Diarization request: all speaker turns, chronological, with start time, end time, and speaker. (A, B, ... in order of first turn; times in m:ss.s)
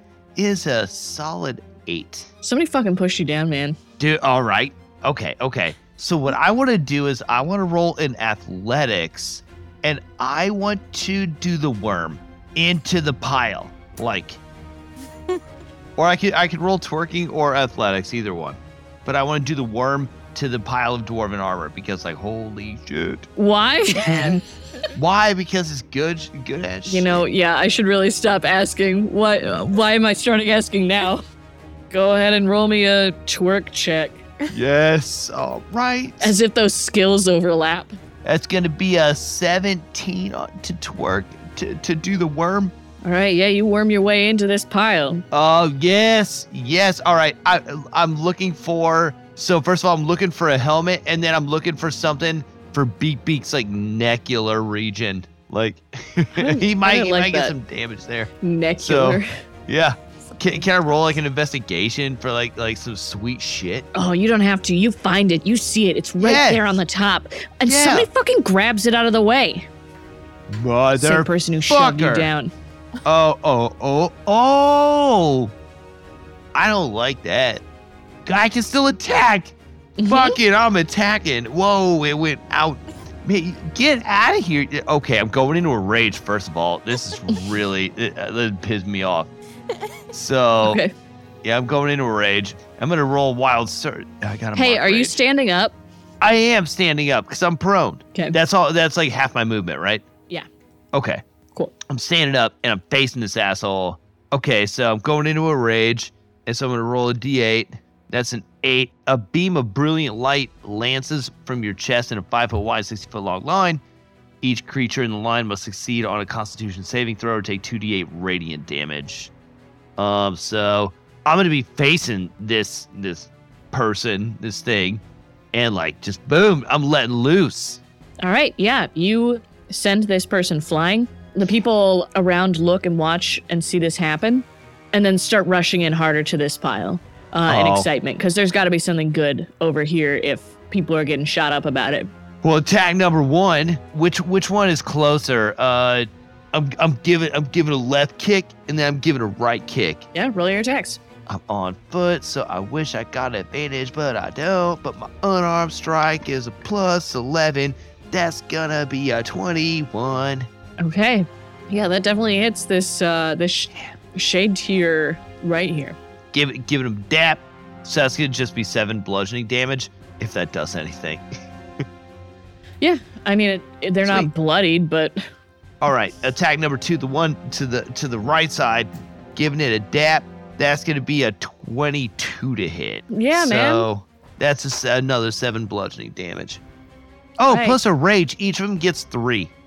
0:00.4-0:02.3 A
0:02.4-0:03.8 B
0:04.0-0:14.4 A
0:16.0-0:23.3 A
0:23.4-0:24.4 B
0:24.1-0:24.3 A
0:25.0-0:27.2 A
0:26.9-0:31.2 B
0:31.9-0:34.3 B
0:34.5-0:36.4 A
0:36.2-0:38.0 B
0:38.2-0:42.7 A
0:43.0-0:45.2 B
0:45.3-0:58.3 A
0:56.4-0:57.6 B
0:58.4-0:59.3 B
0:58.8-1:03.9 A
1:03.9-1:09.7 B
1:06.2-1:06.8 A
1:07.7-1:08.1 A
1:10.5-1:12.3 A
1:11.0-1:12.5 B
1:13.0-1:15.5 A
1:16.5-1:17.6 A
1:18.2-1:19.6 A
1:20.0-1:20.4 B
1:20.1-1:29.3 A
1:30.1-1:30.8 A
1:30.6-1:30.9 B
1:31.4-1:35.2 A
1:34.6-1:35.8 B
1:36.2-1:40.0 A
1:40.9-1:41.2 A
1:41.9-1:53.8 A
1:54.4-1:59.3 A
2:00.0-2:05.0 A
2:05.5-2:07.8 A
2:08.2-2:22.1 B
2:17.5-2:17.9 A
2:22.4-2:30.1 A
2:30.1-2:31.0 B
2:31.3-2:40.5 A
2:40.8-2:46.0 B
2:46.3-2:51.4 A
2:52.8-2:55.2 B
2:54.0-2:54.3 A
2:55.8-3:06.6 A
3:03.1-3:03.9 B
3:07.4-3:09.5 A
3:07.5-3:07.8 B